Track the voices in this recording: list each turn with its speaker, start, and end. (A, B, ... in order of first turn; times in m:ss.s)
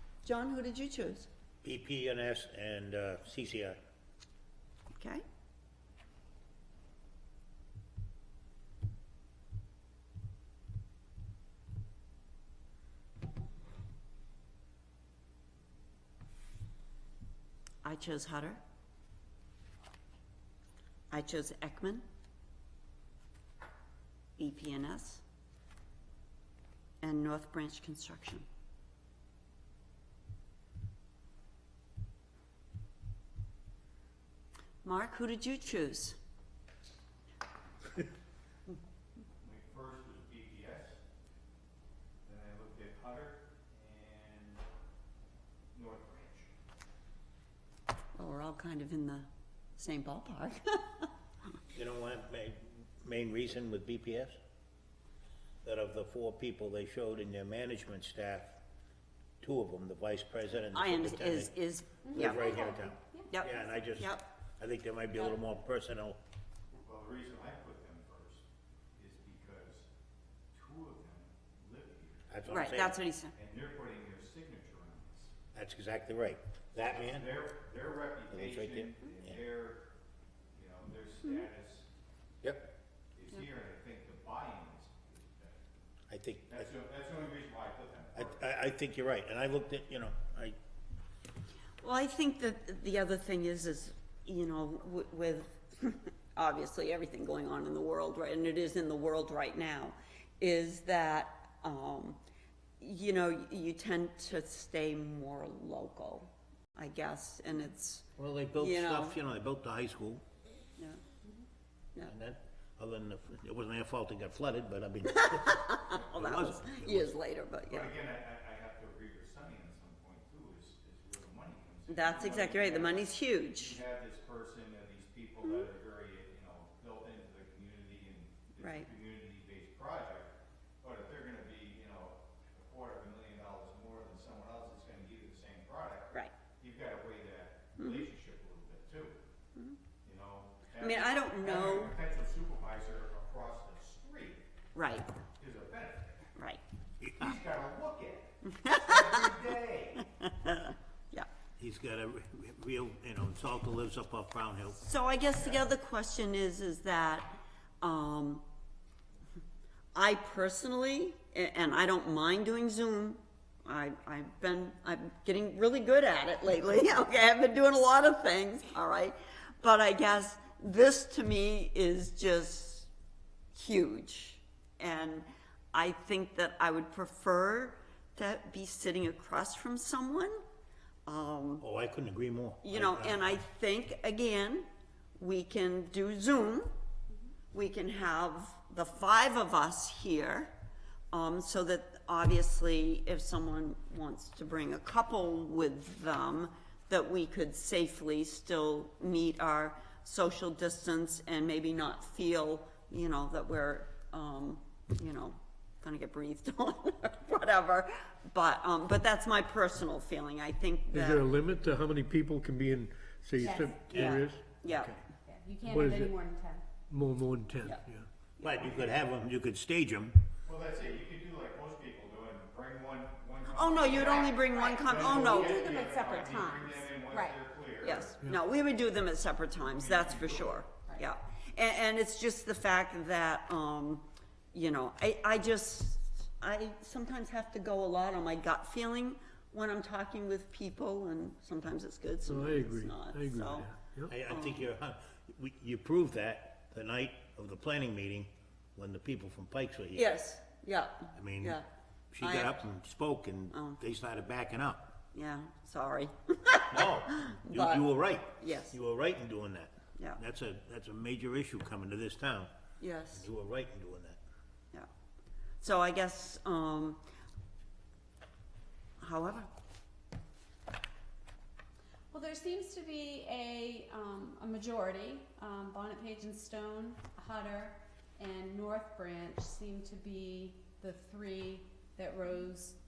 0:00.2-0:01.3 A
0:01.6-0:03.8 B
0:05.0-0:05.2 A
0:17.8-0:18.6 A
0:21.1-0:22.0 A
0:24.4-0:25.2 A
0:27.0-0:28.5 A
0:34.8-0:36.2 A
0:39.4-0:41.0 C
0:42.3-0:44.6 C
0:45.7-0:46.5 C
0:48.2-0:51.1 A
0:51.7-0:54.4 B
0:55.6-0:58.6 B
0:59.4-1:01.5 B
1:00.7-1:02.4 A
1:02.0-1:03.4 D
1:02.1-1:06.2 B
1:03.3-1:04.3 A
1:06.7-1:09.9 C
1:10.5-1:12.3 C
1:12.3-1:13.0 B
1:12.5-1:13.3 A
1:13.4-1:15.3 C
1:15.5-1:17.3 B
1:17.0-1:19.9 C
1:18.3-1:19.4 B
1:20.5-1:21.9 C
1:23.2-1:25.6 C
1:26.1-1:26.7 B
1:26.5-1:28.3 C
1:28.1-1:30.6 B
1:31.8-1:42.2 A
1:42.8-1:49.2 A
1:48.2-1:50.2 B
1:52.1-1:57.2 B
1:55.0-1:58.0 A
1:57.7-2:10.3 C
2:01.9-2:03.8 A
2:05.4-2:05.7 A
2:08.6-2:08.9 A
2:10.8-2:19.2 C
2:17.8-2:18.1 A
2:20.0-2:24.4 C
2:20.8-2:22.0 A
2:24.8-2:25.1 A
2:25.3-2:26.3 C
2:27.0-2:27.3 B
2:27.2-2:30.1 C
2:28.5-2:29.4 A
2:30.0-2:31.3 A
2:31.6-2:34.8 B
2:34.8-2:38.4 A
2:40.0-2:52.9 A
2:53.6-3:00.4 A
3:01.1-3:01.7 A
3:01.6-3:03.3 B
3:02.6-3:04.7 A
3:05.2-3:06.7 A
3:07.5-3:10.5 A
3:11.1-3:31.3 A
3:30.9-3:35.0 E
3:33.4-3:34.2 D
3:33.9-3:35.0 A
3:35.2-3:36.6 D
3:35.6-3:36.1 E
3:36.9-3:38.1 E
3:38.4-3:38.7 A
3:38.4-3:40.2 B
3:40.4-3:48.2 C
3:43.5-3:46.1 A
3:43.7-3:47.4 D
3:47.8-4:03.7 A
3:49.6-3:50.7 C
4:02.3-4:04.1 E
4:04.1-4:10.1 B
4:04.3-4:04.7 A
4:10.0-4:11.7 A
4:11.2-4:11.6 B
4:12.1-4:15.0 B
4:12.2-4:12.6 A
4:13.5-4:13.8 A
4:15.1-4:18.8 A
4:16.7-4:22.5 B
4:22.8-4:23.3 A
4:23.1-4:24.2 B
4:25.6-4:27.0 A
4:29.0-4:29.5 A
4:32.1-4:42.8 D